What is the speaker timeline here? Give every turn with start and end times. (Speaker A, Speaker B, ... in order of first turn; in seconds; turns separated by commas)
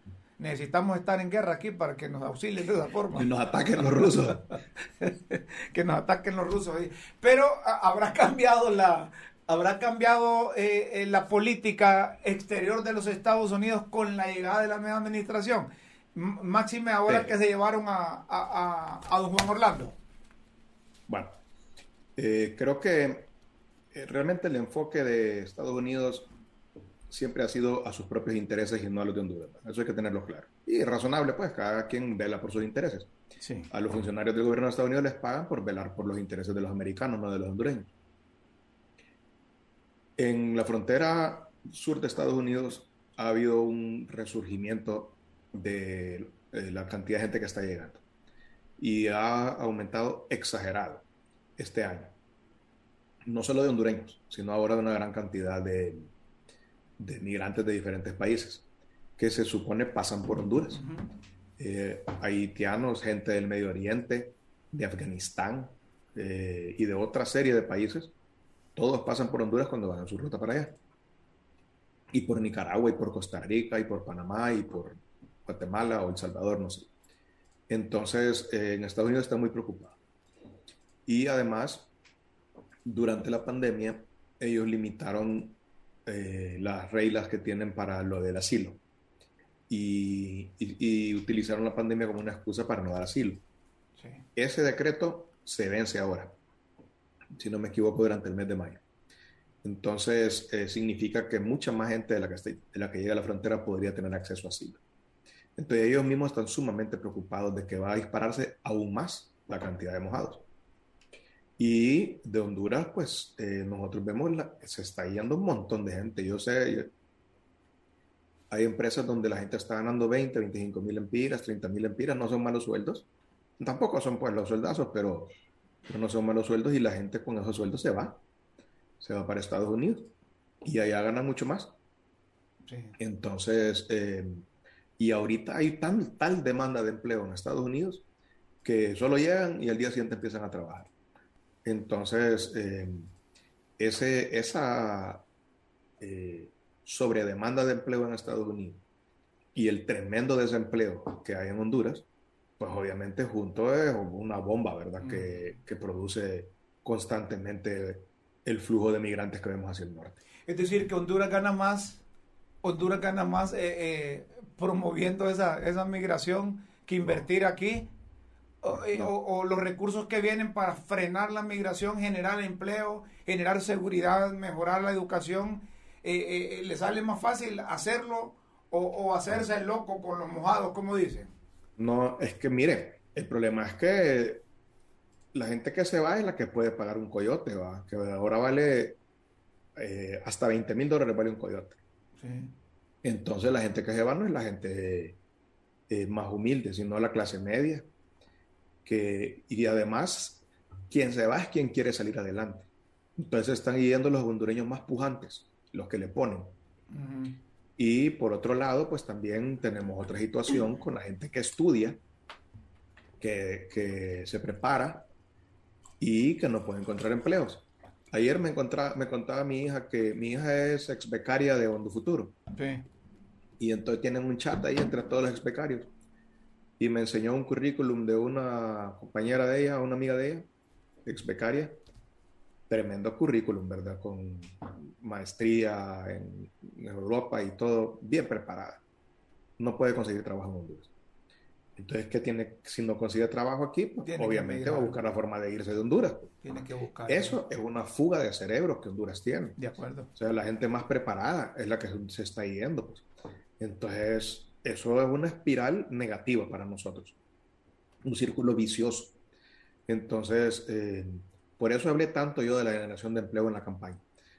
Speaker A: 0.4-3.3, Speaker B: 3.1-4.4, Speaker A: 3.9-20.0, Speaker B: 17.1-17.3, Speaker B: 21.1-21.4, Speaker B: 22.1-23.3, Speaker B: 23.9-26.3, Speaker B: 27.1-33.1, Speaker A: 33.4-33.7, Speaker B: 33.7-37.9, Speaker B: 40.2-48.0, Speaker B: 48.8-51.0, Speaker B: 51.6-52.1, Speaker B: 53.2-56.1, Speaker B: 57.0-58.6, Speaker B: 59.2-60.8, Speaker A: 60.7-61.1, Speaker B: 61.6-68.1, Speaker B: 68.7-70.8, Speaker B: 72.1-76.9, Speaker B: 77.7-80.0, Speaker B: 81.0-81.9, Speaker B: 82.8-88.8, Speaker B: 89.7-93.4, Speaker A: 94.0-94.2, Speaker B: 94.3-96.4, Speaker B: 97.3-98.8, Speaker B: 99.6-104.8, Speaker B: 105.5-110.4, Speaker B: 111.6-116.9, Speaker B: 118.5-123.0, Speaker B: 123.6-125.3, Speaker B: 125.9-128.2, Speaker B: 129.0-130.1, Speaker B: 130.6-131.7, Speaker A: 132.7-133.0, Speaker B: 133.0-134.4, Speaker B: 135.0-138.0, Speaker B: 138.6-140.9, Speaker B: 141.6-143.1, Speaker B: 143.8-145.2, Speaker B: 146.0-148.8, Speaker B: 149.5-152.1, Speaker B: 152.6-160.2, Speaker A: 155.0-155.5, Speaker A: 160.4-162.0, Speaker A: 162.6-167.9, Speaker A: 168.6-181.3, Speaker B: 181.8-184.4, Speaker B: 185.3-189.0, Speaker B: 189.8-191.8, Speaker A: 192.2-192.5, Speaker B: 193.0-195.2, Speaker B: 195.9-197.8, Speaker B: 198.8-206.6, Speaker A: 206.9-207.4, Speaker B: 207.8-212.0, Speaker B: 213.2-215.1, Speaker B: 216.0-222.3, Speaker A: 222.5-222.8, Speaker B: 223.6-225.9, Speaker B: 226.8-230.5, Speaker B: 231.0-231.8, Speaker B: 232.7-238.8, Speaker B: 239.6-240.9, Speaker B: 241.8-246.3, Speaker A: 244.0-245.0, Speaker A: 246.4-247.4, Speaker B: 247.1-249.6, Speaker A: 249.6-250.1, Speaker B: 250.1-253.1, Speaker B: 253.6-257.1, Speaker B: 258.0-259.2, Speaker B: 259.9-264.0